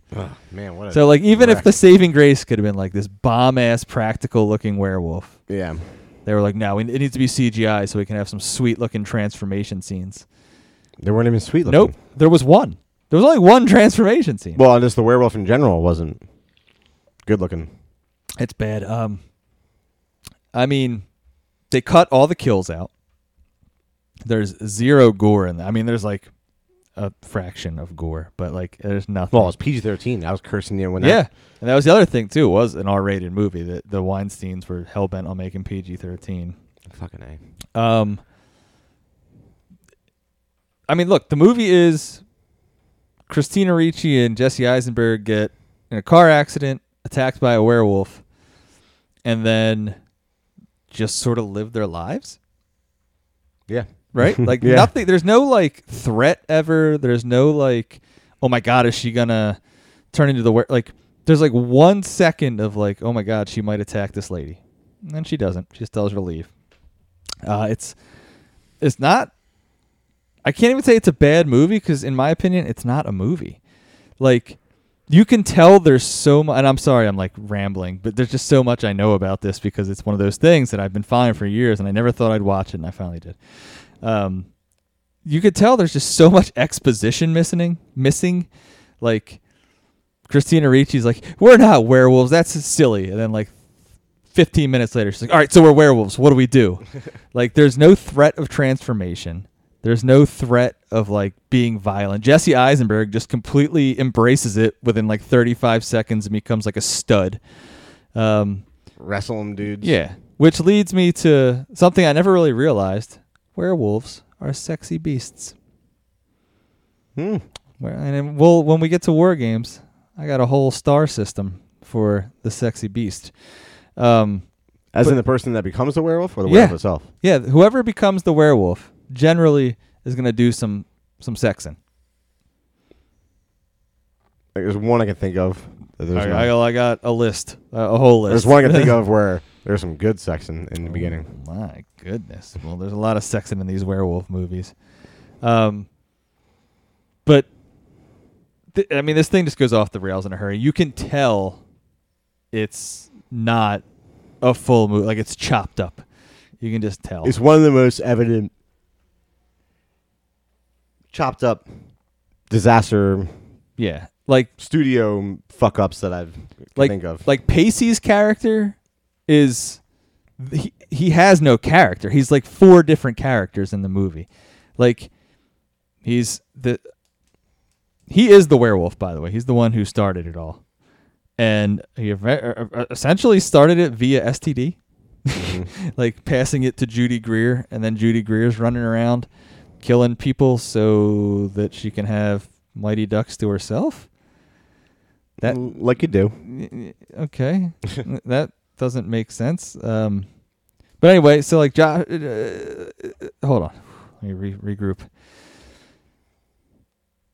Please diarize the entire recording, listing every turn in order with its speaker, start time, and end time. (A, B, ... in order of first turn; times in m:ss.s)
0:00.1-0:01.7 A
0:00.9-0:05.4 B
0:05.5-0:05.8 A
0:06.2-0:10.2 B
0:11.0-0:11.9 A
0:11.6-0:14.6 B
0:14.6-0:16.2 A
0:17.2-0:17.7 A
0:18.4-0:19.2 B
0:20.5-0:21.0 B
0:21.7-0:22.9 B
0:24.2-0:26.3 B
0:27.0-0:29.5 B
0:29.3-0:31.2 A
0:31.0-0:36.6 B
0:36.9-0:37.4 A
0:37.7-0:38.2 B
0:40.9-0:42.2 B
0:43.3-0:48.2 B
0:49.2-0:50.0 B
0:50.9-0:52.4 B
0:53.7-0:54.9 A
0:54.1-0:59.6 B
1:00.1-1:06.5 B
1:07.4-1:08.0 B
1:08.8-1:09.3 B
1:10.4-1:13.6 B
1:14.2-1:14.6 B
1:15.1-1:23.4 B
1:24.0-1:24.5 B
1:25.2-1:28.5 B
1:29.0-1:29.4 B
1:30.3-1:33.5 B
1:34.3-1:47.4 B
1:48.1-1:48.6 B
1:49.0-1:49.9 A
1:49.8-1:55.5 B
1:57.2-1:57.4 A
1:57.8-2:03.3 B
2:04.0-2:04.4 B
2:04.9-2:07.0 A
2:06.4-2:11.8 B
2:14.5-2:16.5 A
2:16.1-2:19.0 B
2:18.3-2:21.3 A
2:20.8-2:24.7 B
2:25.4-2:25.9 B
2:28.7-2:31.6 B
2:32.5-2:33.8 B
2:34.4-2:36.0 B
2:36.6-2:37.3 B
2:37.2-2:38.5 A
2:41.1-2:41.6 A
2:42.5-2:43.3 A
2:43.8-2:44.5 B
2:44.6-2:47.2 A
2:46.8-2:48.8 B
2:49.3-2:49.8 B
2:50.4-2:54.3 B
2:54.8-2:55.1 B
2:56.0-2:56.8 B
2:58.1-3:00.6 B
3:01.4-3:09.3 B
3:05.4-3:05.7 A
3:09.8-3:14.1 B
3:15.4-3:16.3 A
3:15.4-3:15.7 B
3:16.4-3:20.3 B
3:21.0-3:25.1 B